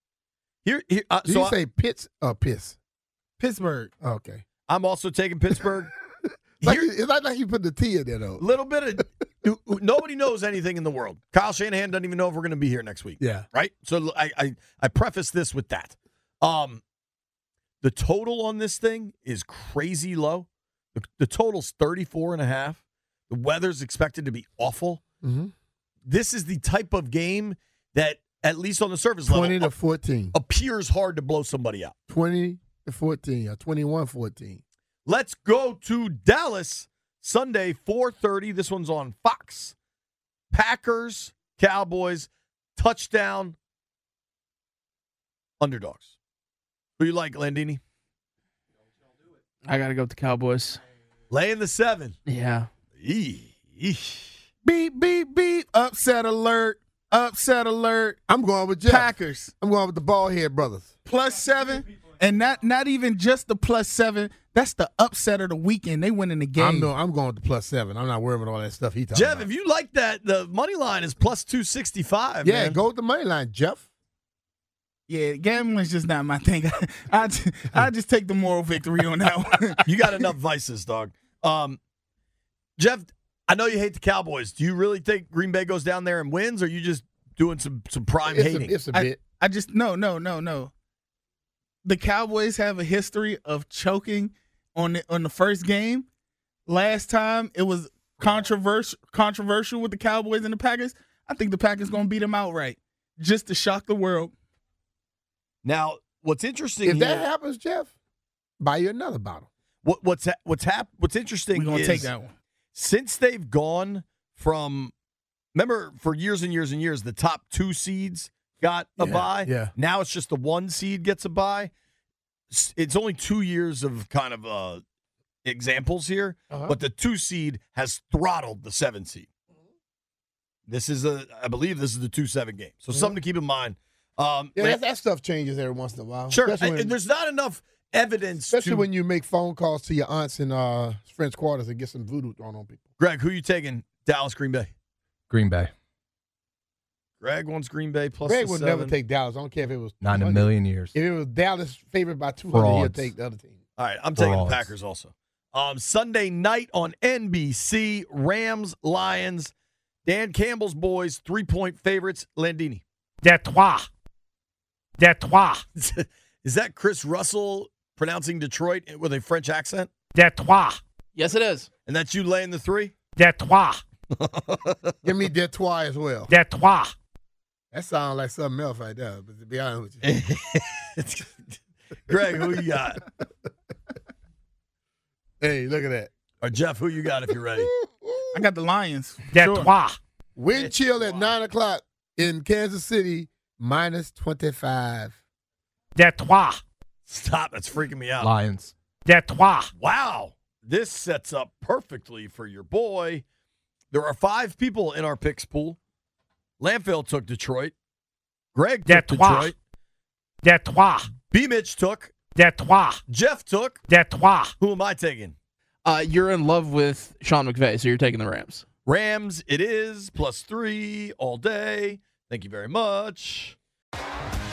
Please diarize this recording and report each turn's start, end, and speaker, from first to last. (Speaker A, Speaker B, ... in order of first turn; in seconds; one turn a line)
Speaker A: 0.6-1.6
Speaker B: 1.2-2.8
Speaker C: 3.4-3.9
Speaker B: 4.0-4.4
Speaker A: 4.7-5.9
Speaker B: 6.6-8.4
Speaker A: 6.6-6.9
Speaker A: 8.4-16.8
Speaker B: 13.2-13.5
Speaker A: 17.8-25.0
Speaker B: 25.2-25.5
Speaker A: 26.1-29.7
Speaker B: 29.2-30.4
Speaker A: 30.3-31.9
Speaker B: 32.1-34.6
Speaker A: 35.0-39.8
Speaker A: 40.5-43.5
Speaker A: 45.6-46.1
Speaker A: 47.0-47.8
Speaker D: 49.6-50.8
Speaker A: 51.3-52.1
Speaker D: 52.2-52.7
Speaker A: 53.0-54.3
Speaker C: 54.6-58.2
Speaker B: 58.3-60.9
Speaker C: 58.8-59.5
Speaker C: 61.0-66.9
Speaker B: 66.5-69.5
Speaker A: 69.1-72.8
Speaker B: 72.4-73.8
Speaker C: 75.1-80.2
Speaker A: 79.9-81.8
Speaker A: 82.8-88.8
Speaker B: 88.2-89.2
Speaker C: 88.9-90.7
Speaker C: 91.8-96.0
Speaker C: 96.7-104.3
Speaker A: 105.6-107.3
Speaker B: 106.8-107.9
Speaker B: 108.6-109.5
Speaker A: 109.8-112.1
Speaker C: 111.5-112.3
Speaker A: 112.7-114.9
Speaker A: 115.5-121.7
Speaker B: 119.0-119.7
Speaker A: 122.5-124.8
Speaker A: 125.4-129.3
Speaker B: 126.5-126.8
Speaker A: 130.7-134.8
Speaker B: 132.9-133.2
Speaker B: 134.6-136.9
Speaker A: 136.3-138.9
Speaker B: 138.5-142.8
Speaker A: 143.0-144.7
Speaker E: 145.3-145.7
Speaker A: 147.2-148.9
Speaker B: 148.2-153.6
Speaker E: 150.0-150.9
Speaker E: 152.5-153.1
Speaker A: 153.8-159.5
Speaker E: 154.2-154.7
Speaker A: 160.0-162.8
Speaker F: 163.2-163.8
Speaker F: 165.0-165.6
Speaker A: 165.8-169.9
Speaker F: 170.1-170.8
Speaker D: 171.1-171.7
Speaker A: 171.8-172.9
Speaker F: 173.2-173.8
Speaker A: 174.1-175.0
Speaker B: 175.0-176.3
Speaker F: 176.3-176.9
Speaker B: 177.7-180.1
Speaker A: 180.0-183.0
Speaker B: 185.4-186.1
Speaker A: 186.4-187.7
Speaker B: 187.6-188.4
Speaker C: 188.3-189.7
Speaker F: 189.3-190.0
Speaker B: 190.3-195.1
Speaker A: 190.5-191.4
Speaker F: 195.9-196.6
Speaker A: 197.1-198.3
Speaker E: 198.2-198.7
Speaker F: 199.1-199.7
Speaker A: 199.7-203.2
Speaker A: 203.9-205.8
Speaker A: 206.6-207.7
Speaker A: 208.5-209.6
Speaker F: 208.9-209.5
Speaker F: 210.4-211.1
Speaker A: 211.3-212.1
Speaker F: 212.3-213.0
Speaker A: 213.1-213.8
Speaker F: 213.9-214.5
Speaker A: 214.6-215.3
Speaker D: 215.8-218.6
Speaker A: 218.8-223.5